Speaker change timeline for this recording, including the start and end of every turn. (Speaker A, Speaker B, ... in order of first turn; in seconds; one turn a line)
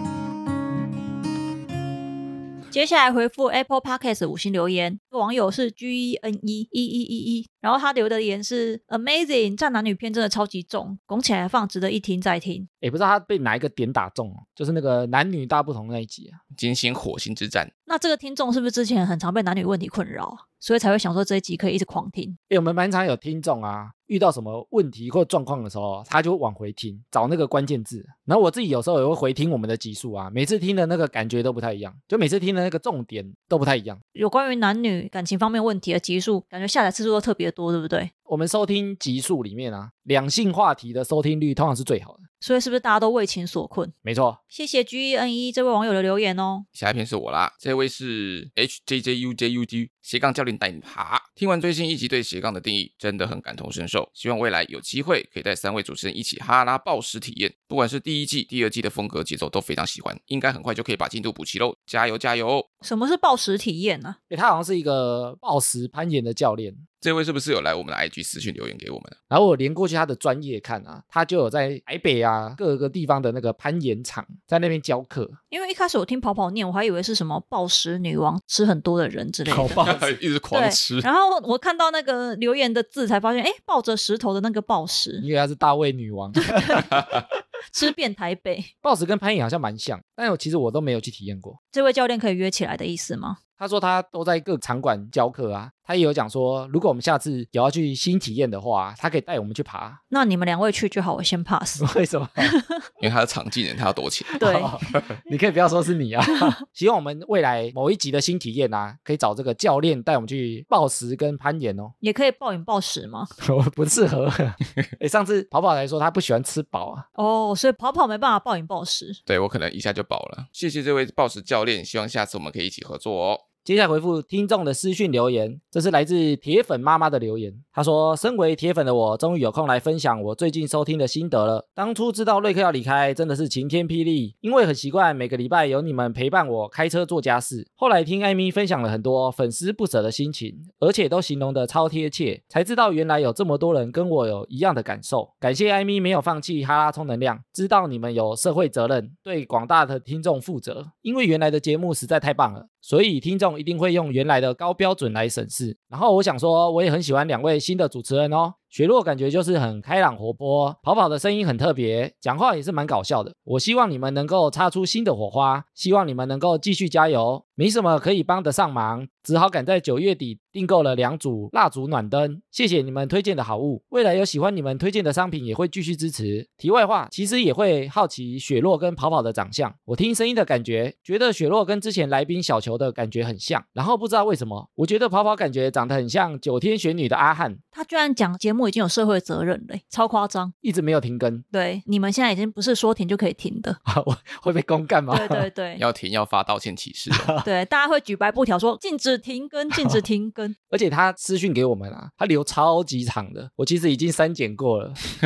Speaker A: 2.7-12.7
Speaker B: 12.8-16.4
Speaker C: 16.5-17.7
Speaker A: 17.9-22.4
Speaker B: 22.5-34.0
Speaker A: 34.1-38.1
Speaker B: 38.3-42.2
Speaker A: 42.4-43.9
Speaker B: 44.0-44.4
Speaker A: 44.5-46.7
Speaker C: 46.7-62.7
Speaker A: 62.8-64.2
Speaker B: 64.3-66.8
Speaker C: 67.0-69.2
Speaker B: 69.3-75.4
Speaker A: 75.5-79.8
Speaker B: 79.5-80.1
Speaker C: 79.8-81.1
Speaker A: 80.5-85.2
Speaker B: 85.2-86.8
Speaker A: 86.5-86.8
Speaker A: 87.7-88.7
Speaker B: 88.8-91.6
Speaker A: 91.7-93.4
Speaker B: 93.6-100.0
Speaker A: 100.1-101.8
Speaker B: 101.8-102.5
Speaker A: 102.4-102.8
Speaker C: 103.0-104.4
Speaker B: 104.3-111.9
Speaker A: 104.4-104.8
Speaker A: 112.0-113.3
Speaker B: 113.4-117.1
Speaker A: 117.2-119.2
Speaker C: 119.3-123.5
Speaker B: 123.7-187.6
Speaker A: 187.8-190.5
Speaker B: 190.6-191.4
Speaker A: 191.5-193.8
Speaker B: 193.9-195.5
Speaker A: 195.1-195.8
Speaker C: 195.8-197.3
Speaker B: 197.1-197.4
Speaker A: 197.4-200.6
Speaker B: 200.7-205.0